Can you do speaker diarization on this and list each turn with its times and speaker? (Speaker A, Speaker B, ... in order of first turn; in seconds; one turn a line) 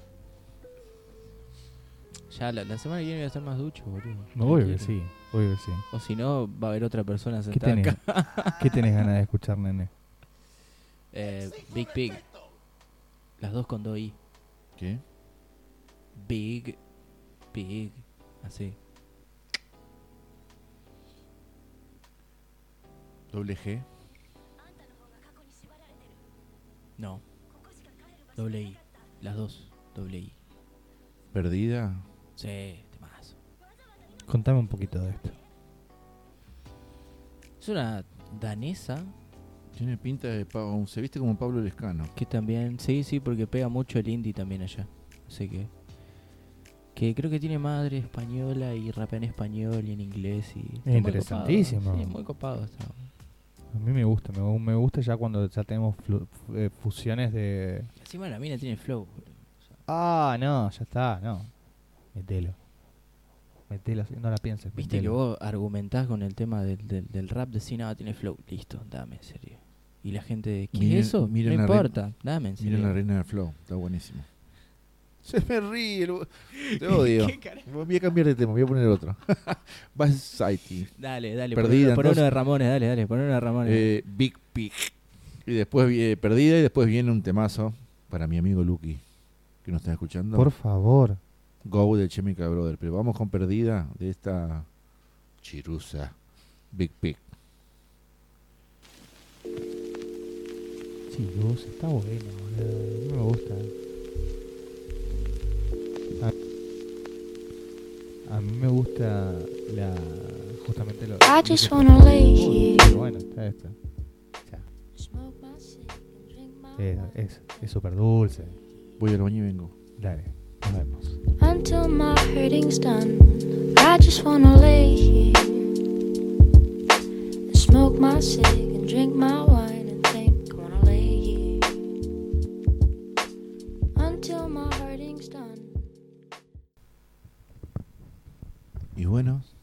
Speaker A: 2.3-5.0
Speaker B: 4.3-5.8
Speaker A: 5.9-8.8
Speaker B: 7.5-9.9
Speaker A: 11.1-12.3
Speaker A: 13.4-14.2
Speaker C: 14.8-15.0
Speaker A: 16.2-16.8
Speaker A: 17.5-18.8
Speaker C: 23.3-23.9
Speaker A: 27.0-27.2
Speaker A: 28.3-30.4
Speaker C: 31.3-32.0
Speaker A: 32.4-33.4
Speaker B: 34.3-35.4
Speaker A: 37.6-39.1
Speaker C: 39.7-42.1
Speaker A: 42.2-45.7
Speaker A: 47.0-53.1
Speaker B: 50.9-52.2
Speaker B: 53.7-57.9
Speaker A: 58.0-59.8
Speaker B: 59.9-61.5
Speaker B: 62.1-62.6
Speaker B: 63.7-65.2
Speaker A: 64.8-73.0
Speaker C: 70.7-72.0
Speaker C: 72.6-74.3
Speaker C: 75.2-80.9
Speaker A: 76.5-77.7
Speaker A: 81.0-83.9
Speaker C: 81.5-82.3
Speaker C: 83.7-84.9
Speaker C: 85.5-89.0
Speaker C: 89.6-90.5
Speaker B: 90.3-91.2
Speaker C: 91.6-94.7
Speaker C: 95.4-96.2
Speaker C: 96.7-97.2
Speaker B: 101.1-103.7
Speaker B: 108.3-113.8
Speaker D: 111.2-113.0
Speaker D: 115.0-118.9
Speaker B: 116.8-118.6
Speaker C: 119.0-119.7
Speaker B: 120.0-121.2
Speaker D: 121.4-125.9
Speaker D: 127.5-131.8
Speaker D: 133.9-135.9
Speaker C: 138.9-139.5